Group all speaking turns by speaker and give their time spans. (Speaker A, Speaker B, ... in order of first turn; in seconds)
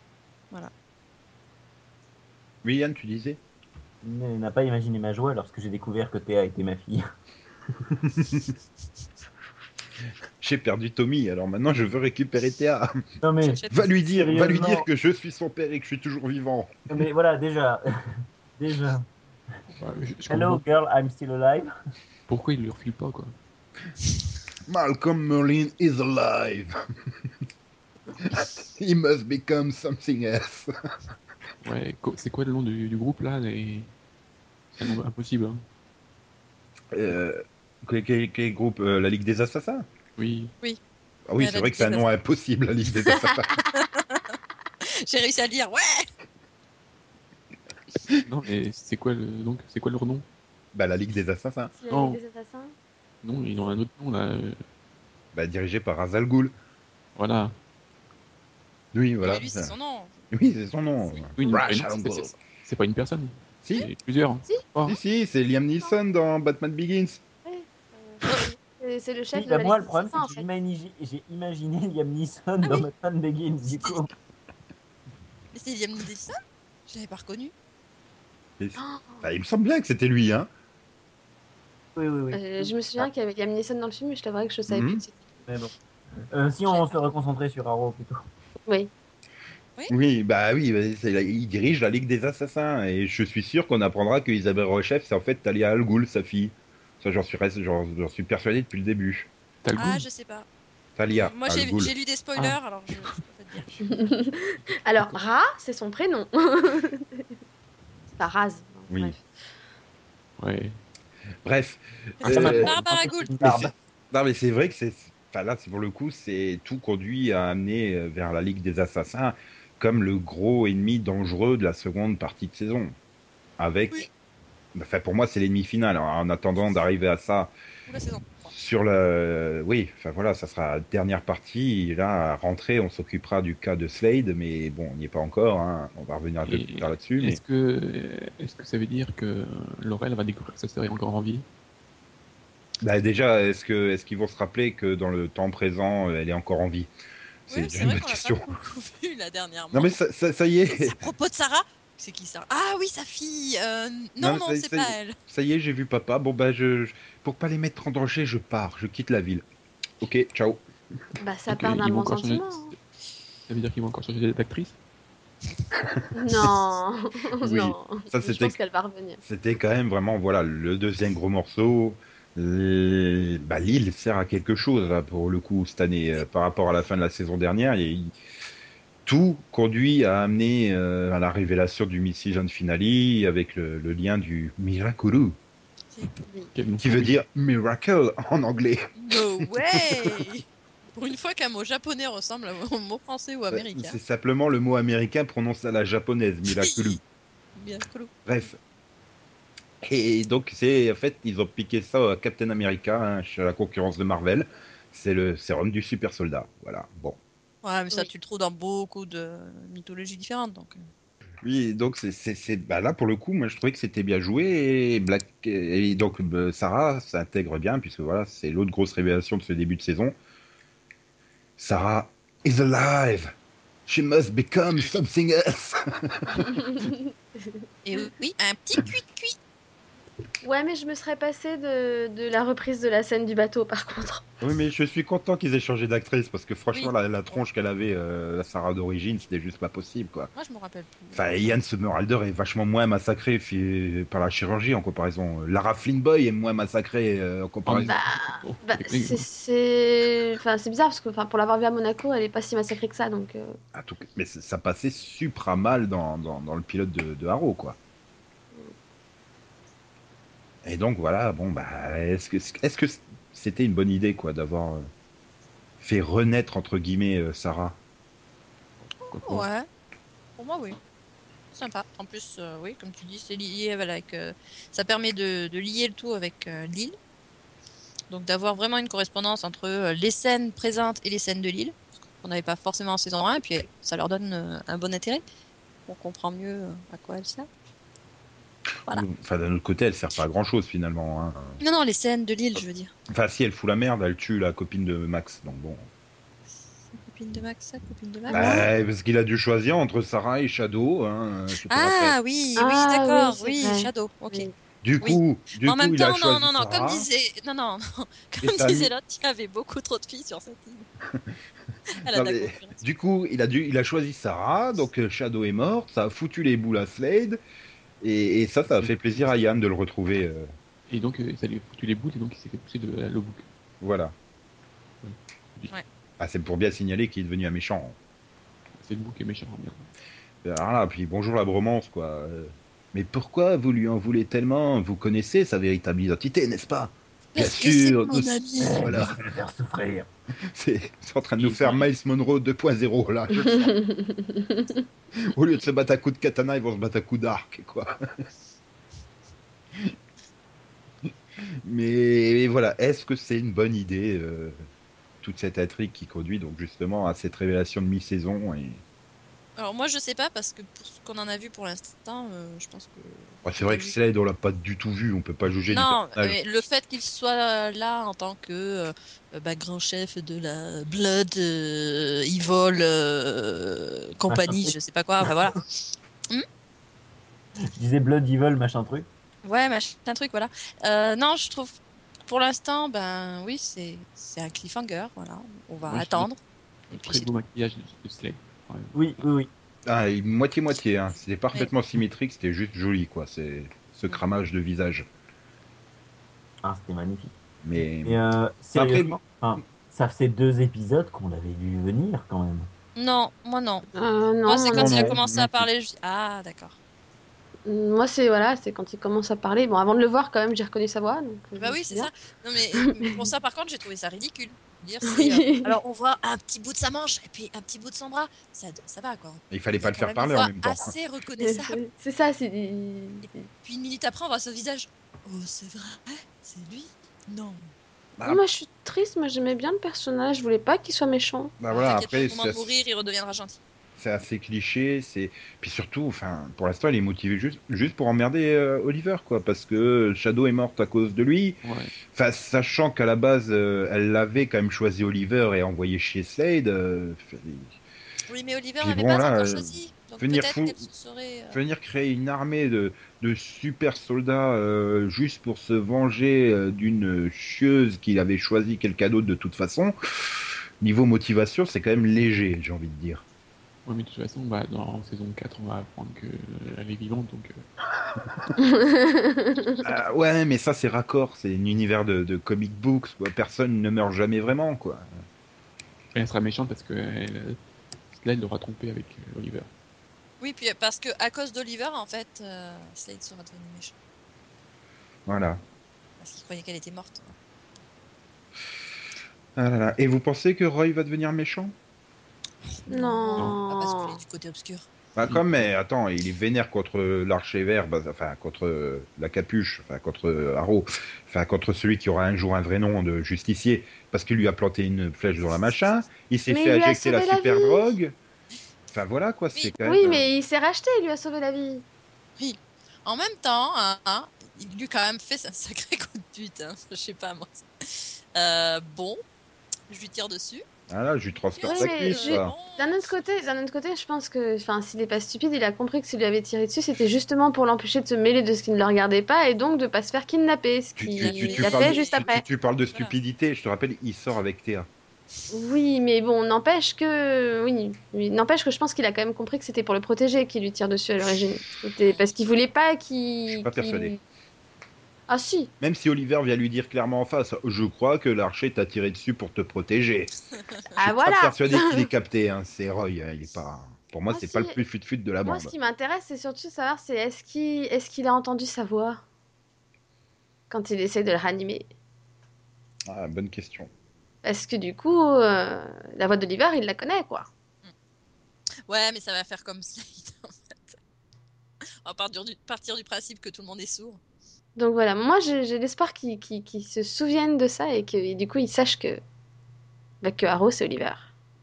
Speaker A: 2.6-3.4, 8.2-8.5, 10.4-13.0, 13.7-16.7, 24.7-26.8, 28.2-30.7, 36.9-39.9, 41.3-43.6, 50.7-51.7, 55.3-56.5, 58.9-59.7, 60.3-62.3, 63.6-63.9, 64.8-67.2, 78.6-80.5, 84.7-85.0, 89.9-99.3, 101.0-101.9, 108.9-109.2, 111.4-112.7, 113.4-122.9, 123.6-124.1, 124.7-127.5, 128.5-137.4, 142.8-146.9, 147.5-148.5, 149.7-151.1, 154.2-159.4, 160.0-160.6, 165.8-166.1, 167.4-168.6, 169.2-178.1, 179.1-185.4, 186.8-190.3, 193.5-197.0, 198.2-198.6, 199.8-207.2, 211.4-220.1, 221.6-223.3, 223.9-226.7, 234.4-240.3, 241.1-247.9, 253.7-257.8, 260.6-264.9, 265.8-267.8, 288.9-291.6, 293.1-295.9, 298.3-302.1, 304.8-307.1, 308.4-308.9, 312.1-317.4, 318.0-320.5, 323.8-324.1, 326.2-327.9, 330.4-339.2, 340.5-343.7, 345.3-347.9, 351.4-354.6, 355.2-358.8, 363.4-366.4, 389.9-395.1, 397.6-398.2, 398.7-399.2, 404.7-405.7, 419.5-420.9, 428.2-428.4, 431.6-432.7, 434.0-447.8, 448.8-450.8, 451.5-463.2, 469.8-475.1, 485.3-485.6, 489.6-491.7, 495.2-508.1, 508.9-510.3, 520.9-522.5, 531.0-534.9, 543.5-544.1, 545.8-550.3, 551.0-555.7, 563.1-563.9
Speaker B: 4.0-7.1, 13.2-14.8, 16.9-19.1, 20.3-21.7, 69.3-74.1, 82.0-83.0, 85.5-85.7, 86.3-88.2, 112.2-113.7, 338.6-340.1, 374.3-375.3, 377.7-379.1, 388.9-389.5, 396.6-397.3, 398.0-402.7
Speaker C: 13.4-13.8, 41.4-42.1, 43.6-46.1, 59.2-60.1, 72.6-72.9, 75.5-77.5, 99.8-100.5, 101.1-104.0, 112.2-113.3, 127.9-128.5, 147.5-149.9, 150.7-155.2, 185.9-186.2, 189.0-194.0, 196.5-197.0, 197.6-198.1, 207.6-210.8, 227.8-229.4, 240.3-241.6, 269.2-269.7, 270.4-270.8, 271.5-276.9, 278.1-285.2, 285.9-287.5, 291.6-292.9, 296.9-298.6, 301.7-304.5, 305.0-310.9, 311.9-312.8, 337.3-338.9, 359.6-363.9, 365.7-375.7, 379.4-386.4, 386.9-387.3, 402.9-403.9, 404.4-406.8, 411.6-421.8, 423.6-427.7, 431.7-433.6, 448.3-451.6, 480.4-483.9, 486.2-487.3, 492.8-494.9, 512.4-519.2, 519.9-520.6, 521.5-523.1, 531.2-532.3, 542.0-542.3, 568.9-571.0, 572.0-574.2
Speaker D: 19.7-20.6, 22.3-23.3, 31.6-33.9, 34.7-35.6, 40.2-40.5, 48.1-50.2, 51.9-52.2, 53.2-54.6, 57.1-57.5, 61.4-65.0, 99.6-100.0, 110.4-110.8, 112.2-112.7, 136.4-141.4, 161.5-162.8, 163.5-164.8, 186.5-187.2, 247.7-249.3, 268.8-269.5, 320.9-323.4, 325.0-325.7, 328.8-329.9, 341.4-341.8, 385.8-386.3, 386.9-388.9, 441.6-441.9, 463.9-467.6, 476.1-477.6, 478.1-479.7, 495.2-495.6
Speaker E: 51.8-52.7, 67.4-70.5, 78.8-79.2, 82.3-85.2, 103.8-107.3, 108.2-109.2, 161.2-162.7, 166.1-169.2, 226.4-227.5, 230.4-234.2, 247.8-253.6, 298.3-298.7, 302.6-304.5, 343.4-344.8, 403.9-405.2, 407.6-412.1, 412.8-413.2, 415.0-415.7, 421.4-423.4, 428.2-431.5, 468.6-469.8, 492.9-494.2, 506.5-507.9, 509.8-511.8, 521.6-532.4, 535.5-544.2, 545.3-545.7, 551.0-552.1, 554.3-554.8, 555.4-559.2, 560.7-561.9, 564.4-567.5, 574.8-579.2, 580.2-581.3